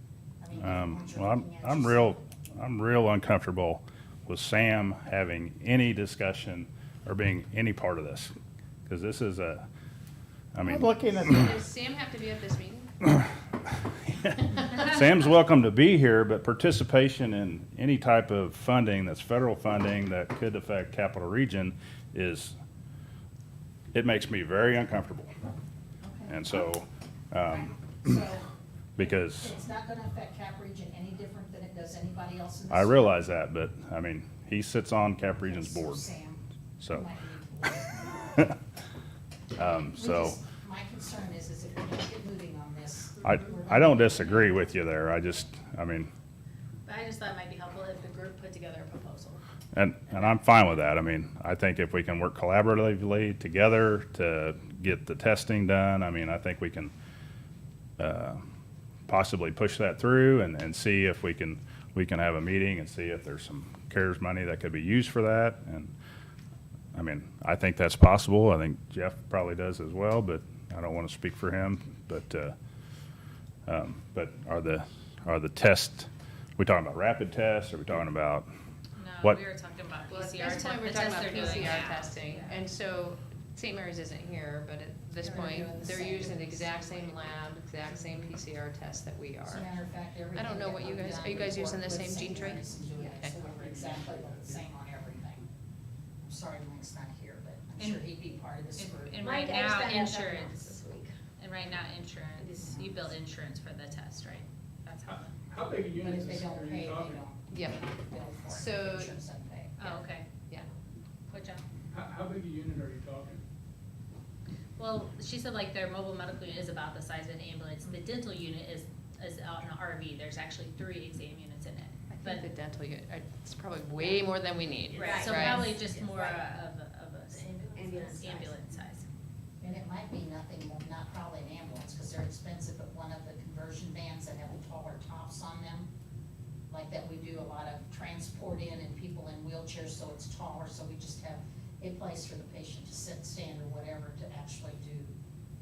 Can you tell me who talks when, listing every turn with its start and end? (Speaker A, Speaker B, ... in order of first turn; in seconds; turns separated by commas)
Speaker A: 0.4-2.2, Speaker B: 0.6-8.3, Speaker B: 8.9-9.7, Speaker B: 10.5-11.6, Speaker C: 10.6-12.9, Speaker B: 14.7-22.6, Speaker B: 23.9-25.3, Speaker A: 26.0-26.6, Speaker B: 26.3-28.2, Speaker A: 27.5-28.5, Speaker B: 29.0-29.5, Speaker A: 29.0-33.2, Speaker B: 32.7-36.0, Speaker A: 35.4-38.0, Speaker B: 36.8-37.1, Speaker B: 39.5-40.4, Speaker A: 39.6-44.7, Speaker B: 43.2-46.1, Speaker D: 46.9-49.4, Speaker E: 46.9-47.7, Speaker B: 49.7-56.9, Speaker B: 58.0-58.4, Speaker B: 59.1-65.9, Speaker B: 66.9-72.5, Speaker B: 73.7-78.5, Speaker E: 79.0-82.6, Speaker C: 80.1-89.7, Speaker A: 85.2-87.4, Speaker A: 89.5-95.5, Speaker C: 90.3-93.5, Speaker F: 93.6-94.6, Speaker A: 96.2-99.2, Speaker E: 97.8-98.1, Speaker E: 98.8-100.8, Speaker G: 99.2-101.1, Speaker E: 101.4-105.3, Speaker A: 102.6-102.9, Speaker F: 105.1-107.2, Speaker A: 105.9-109.8, Speaker C: 107.5-109.2, Speaker E: 109.8-110.3, Speaker E: 111.3-111.6, Speaker F: 111.9-113.4, Speaker E: 114.8-122.5, Speaker C: 122.1-125.7, Speaker E: 124.9-129.1, Speaker G: 125.0-126.5, Speaker G: 127.3-128.5, Speaker A: 129.6-135.9, Speaker A: 136.7-145.2